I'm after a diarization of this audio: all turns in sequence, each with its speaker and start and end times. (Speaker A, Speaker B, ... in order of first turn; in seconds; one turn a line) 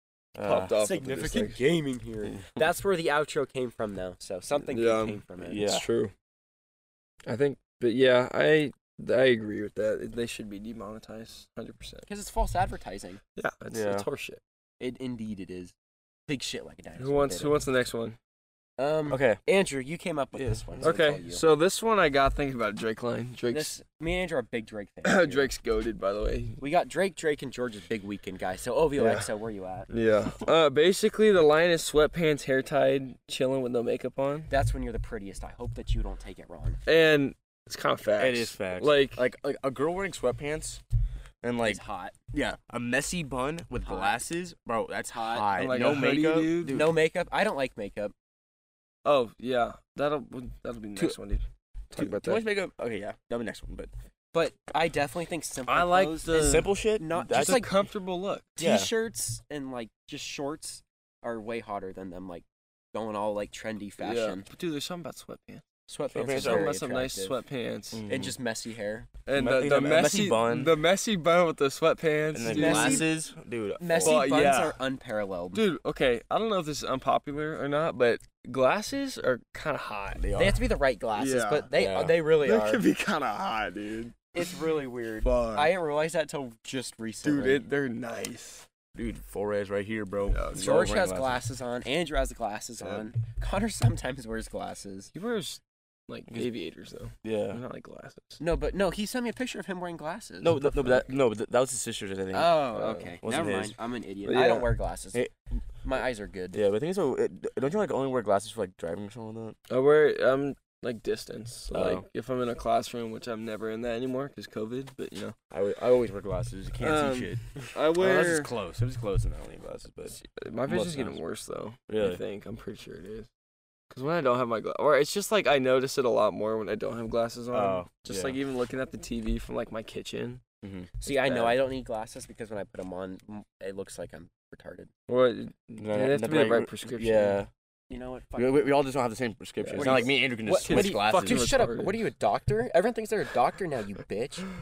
Speaker A: 0.3-0.8
Speaker B: 0.4-1.6
Speaker C: 0.8-5.7
Speaker B: 4.7-6.1
Speaker A: 5.4-5.8
Speaker B: 7.2-12.1
Speaker C: 12.1-13.2
Speaker B: 13.4-14.4
Speaker A: 13.7-14.1
Speaker C: 14.8-15.7
Speaker C: 16.3-17.6
Speaker B: 17.0-18.2
Speaker C: 18.8-21.4
Speaker A: 19.1-19.4
Speaker A: 20.3-20.9
Speaker B: 20.8-23.7
Speaker C: 23.5-25.5
Speaker B: 25.0-26.6
Speaker C: 26.6-29.9
Speaker B: 29.0-29.3
Speaker B: 29.9-34.5
Speaker C: 34.5-36.8
Speaker B: 36.9-39.2
Speaker A: 38.2-40.8
Speaker A: 41.4-41.8
Speaker C: 41.6-42.1
Speaker A: 42.3-46.9
Speaker C: 43.8-44.2
Speaker C: 45.1-45.5
Speaker B: 45.5-46.9
Speaker C: 46.7-48.1
Speaker B: 49.0-52.4
Speaker A: 52.0-53.9
Speaker C: 54.3-57.7
Speaker B: 55.7-58.5
Speaker A: 56.3-57.7
Speaker C: 58.6-64.5
Speaker A: 58.6-58.9
Speaker B: 64.0-65.6
Speaker C: 65.9-67.4
Speaker A: 66.1-66.7
Speaker B: 66.3-68.0
Speaker A: 67.9-68.3
Speaker C: 68.1-69.1
Speaker B: 69.2-73.1
Speaker A: 69.3-70.7
Speaker A: 72.3-74.3
Speaker C: 72.5-73.1
Speaker C: 73.8-75.6
Speaker B: 74.0-74.8
Speaker B: 75.5-80.2
Speaker A: 80.1-80.6
Speaker C: 80.3-82.8
Speaker B: 81.2-81.7
Speaker A: 81.7-82.2
Speaker B: 82.4-84.5
Speaker C: 84.3-87.6
Speaker B: 85.2-85.7
Speaker B: 87.2-88.7
Speaker A: 88.9-91.4
Speaker B: 90.3-90.9
Speaker C: 90.5-95.1
Speaker B: 92.8-93.1
Speaker B: 95.1-98.4
Speaker A: 97.2-97.6
Speaker C: 98.4-100.7
Speaker A: 100.4-102.6
Speaker B: 100.6-101.0
Speaker C: 102.3-105.2
Speaker B: 102.7-103.2
Speaker A: 103.2-103.7
Speaker B: 104.2-104.7
Speaker C: 105.8-106.6
Speaker A: 106.5-109.6
Speaker B: 109.7-115.3
Speaker A: 111.7-112.0
Speaker A: 115.5-121.2
Speaker B: 116.8-118.5
Speaker B: 120.2-123.3
Speaker A: 121.9-122.2
Speaker B: 123.9-130.4
Speaker A: 127.5-128.4
Speaker A: 130.6-131.5
Speaker C: 131.0-134.9
Speaker B: 135.1-137.4
Speaker A: 135.8-137.5
Speaker C: 137.9-138.7
Speaker A: 138.4-141.5
Speaker B: 139.6-142.0
Speaker C: 139.7-144.5